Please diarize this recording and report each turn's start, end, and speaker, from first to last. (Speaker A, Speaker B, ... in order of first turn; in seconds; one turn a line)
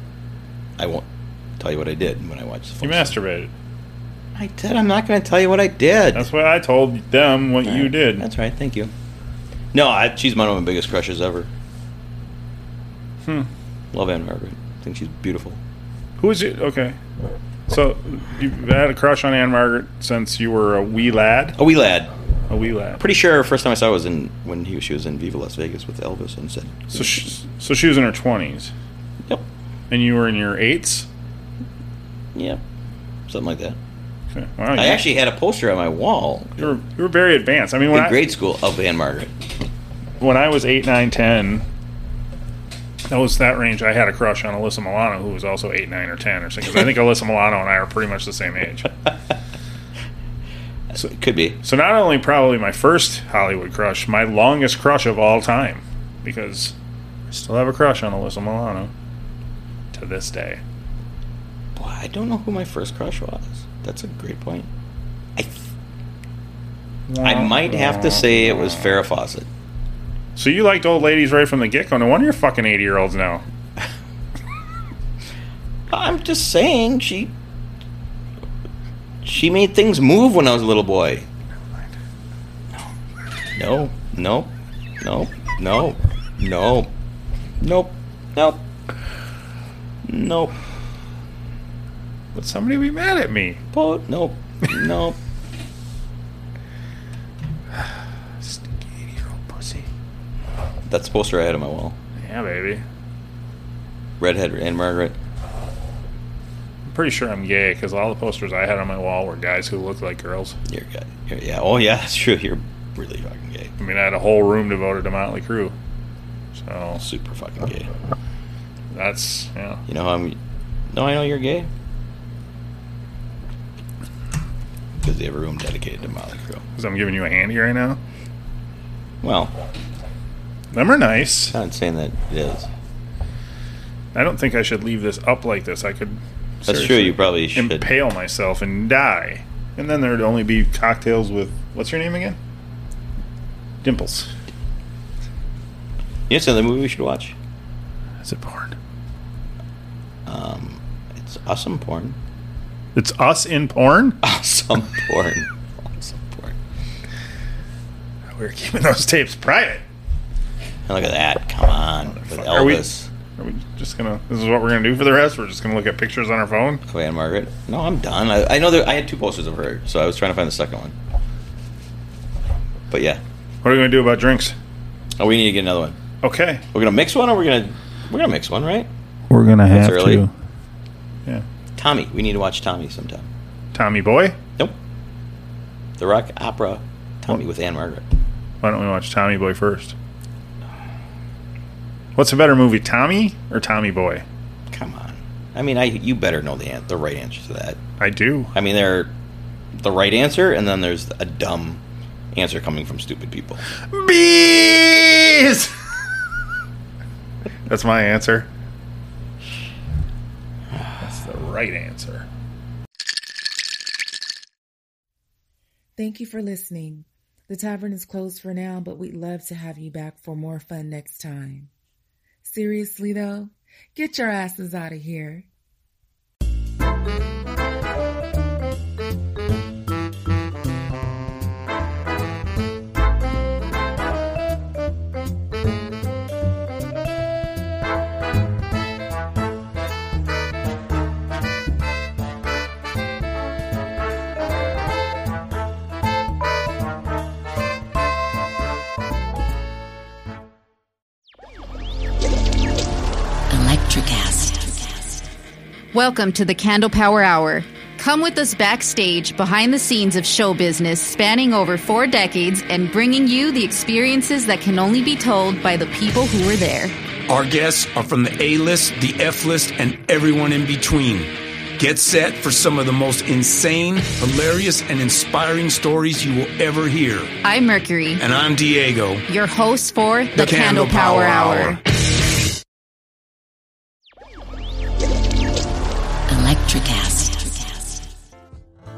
Speaker A: 0.8-1.1
Speaker A: 1.6-3.1
Speaker B: 2.8-3.5
Speaker A: 4.3-6.3
Speaker B: 6.1-8.3
Speaker A: 7.6-8.9
Speaker A: 9.7-11.5
Speaker A: 13.9-15.6
Speaker B: 16.2-16.9
Speaker B: 17.7-21.6
Speaker A: 21.6-22.1
Speaker B: 22.5-23.0
Speaker A: 23.0-27.2
Speaker B: 26.9-28.7
Speaker B: 29.9-31.1
Speaker A: 32.3-32.6
Speaker A: 33.3-33.8
Speaker B: 34.3-35.0
Speaker A: 34.7-36.7
Speaker B: 36.6-38.2
Speaker A: 37.9-39.4
Speaker B: 40.2-41.6
Speaker B: 43.1-48.9
Speaker A: 50.9-51.6
Speaker B: 51.6-56.7
Speaker B: 57.3-58.9
Speaker B: 59.9-60.6
Speaker A: 61.7-64.7
Speaker A: 65.3-65.7
Speaker B: 67.1-69.0
Speaker A: 67.2-69.5
Speaker B: 70.3-73.4
Speaker A: 75.9-77.3
Speaker A: 79.2-81.3
Speaker A: 83.5-86.9
Speaker A: 87.6-88.6
Speaker A: 90.0-90.5
Speaker B: 92.3-93.6
Speaker A: 93.7-95.2
Speaker B: 98.4-99.9
Speaker A: 100.9-102.0
Speaker B: 102.2-102.8
Speaker A: 104.2-105.2
Speaker B: 106.9-110.6
Speaker A: 110.7-113.7
Speaker B: 113.8-115.7
Speaker B: 116.5-117.0
Speaker A: 117.0-117.9
Speaker B: 118.9-119.8
Speaker A: 119.9-120.4
Speaker A: 120.9-121.7
Speaker A: 125.0-126.6
Speaker B: 126.8-128.0
Speaker A: 129.2-129.5
Speaker B: 130.7-131.5
Speaker A: 131.5-132.7
Speaker B: 134.1-142.4
Speaker A: 136.6-137.9
Speaker B: 143.8-144.3
Speaker A: 146.3-147.3
Speaker B: 148.2-148.8
Speaker A: 150.2-152.2
Speaker B: 152.9-154.2
Speaker A: 154.2-156.6
Speaker B: 158.3-159.8
Speaker A: 160.9-163.1
Speaker B: 162.1-166.8
Speaker A: 166.9-170.9
Speaker A: 172.9-173.2
Speaker B: 173.6-174.5
Speaker A: 175.2-176.0
Speaker B: 176.2-176.6
Speaker A: 176.7-178.9
Speaker B: 179.3-180.3
Speaker A: 179.7-180.2
Speaker A: 181.8-183.3
Speaker B: 183.7-184.4
Speaker A: 186.0-188.0
Speaker B: 188.6-189.9
Speaker B: 192.2-194.2
Speaker A: 194.7-197.8
Speaker B: 198.0-198.5
Speaker A: 198.5-199.1
Speaker A: 199.8-201.8
Speaker A: 202.3-203.6
Speaker B: 203.9-205.7
Speaker B: 207.7-208.5
Speaker B: 211.0-212.3
Speaker C: 216.0-221.7
Speaker C: 222.4-225.5
Speaker D: 253.5-255.3
Speaker E: 255.9-266.9
Speaker F: 267.3-277.3
Speaker E: 277.4-278.2
Speaker F: 278.2-279.2
Speaker E: 279.3-281.8
Speaker F: 280.3-281.8
Speaker D: 286.3-288.0